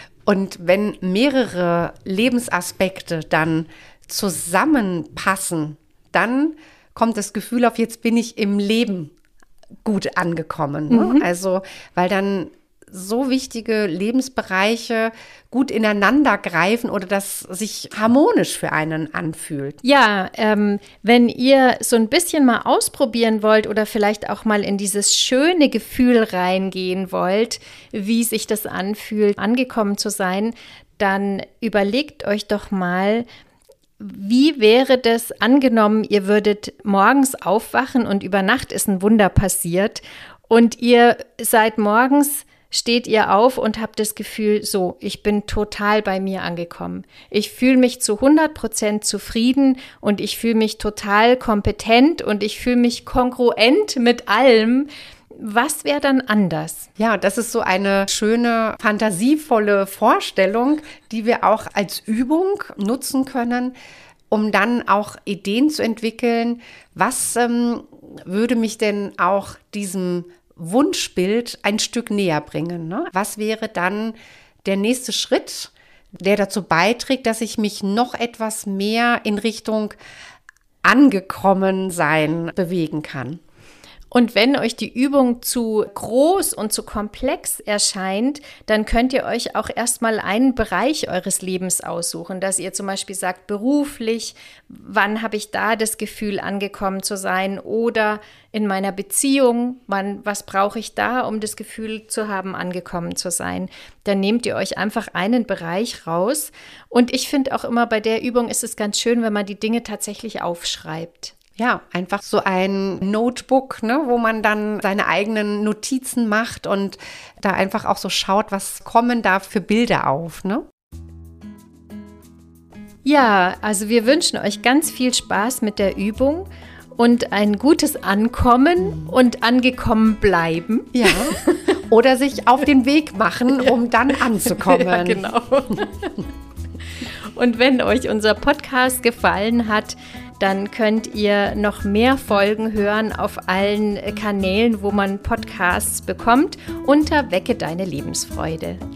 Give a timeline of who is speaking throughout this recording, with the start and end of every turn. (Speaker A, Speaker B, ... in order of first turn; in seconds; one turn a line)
Speaker A: 0.2-9.1
Speaker A: 9.8-19.8
Speaker B: 10.9-11.3
Speaker B: 19.8-33.2
Speaker B: 34.0-56.9
Speaker A: 57.0-63.7
Speaker A: 64.3-80.0
Speaker A: 80.8-83.4
Speaker B: 84.1-111.3
Speaker A: 111.6-120.6
Speaker B: 123.0-131.8
Speaker A: 130.9-135.3
Speaker B: 133.5-136.2
Speaker B: 137.0-148.8